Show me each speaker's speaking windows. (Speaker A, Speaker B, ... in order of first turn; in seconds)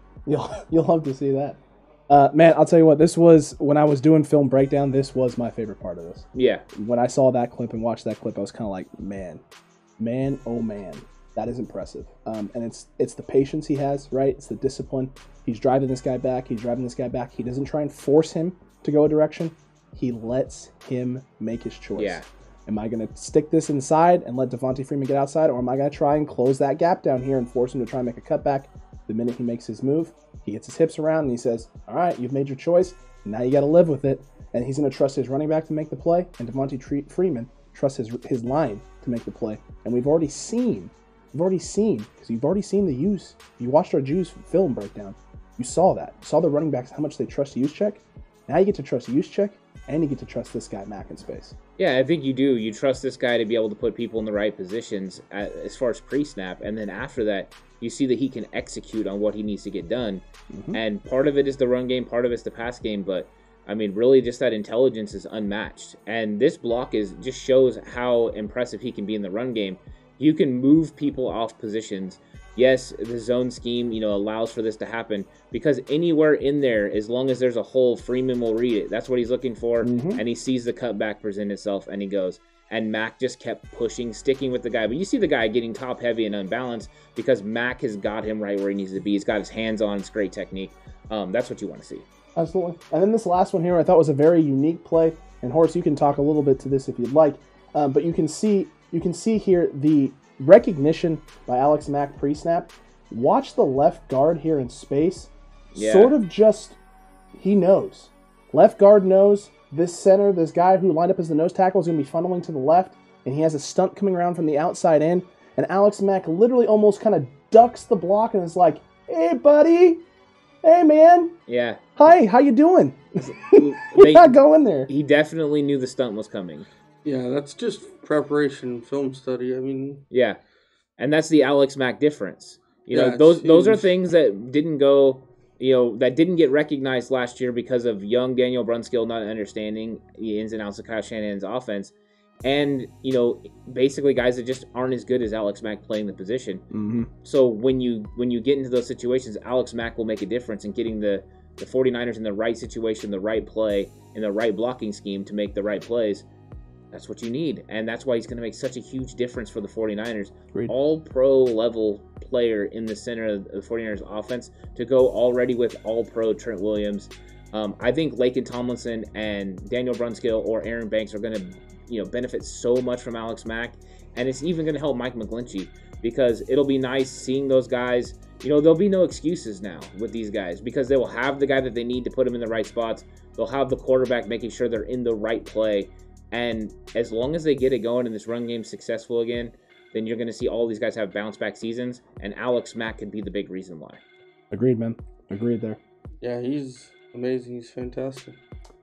Speaker A: 0.3-1.6, 2.1-9.4, 10.0-51.5, 60.5-60.8, 79.8-80.2, 92.4-106.8, 107.3-120.0, 120.6-121.3, 122.0-124.9, 146.7-147.1, 194.5-195.8
Speaker B: 6.3-6.7, 21.9-22.3, 51.8-92.1, 105.7-106.1, 121.5-121.8, 123.2-126.7, 130.1-130.4, 131.0-146.6, 147.2-156.3, 156.9-194.0
Speaker C: 127.0-130.0, 132.9-133.9, 196.2-198.4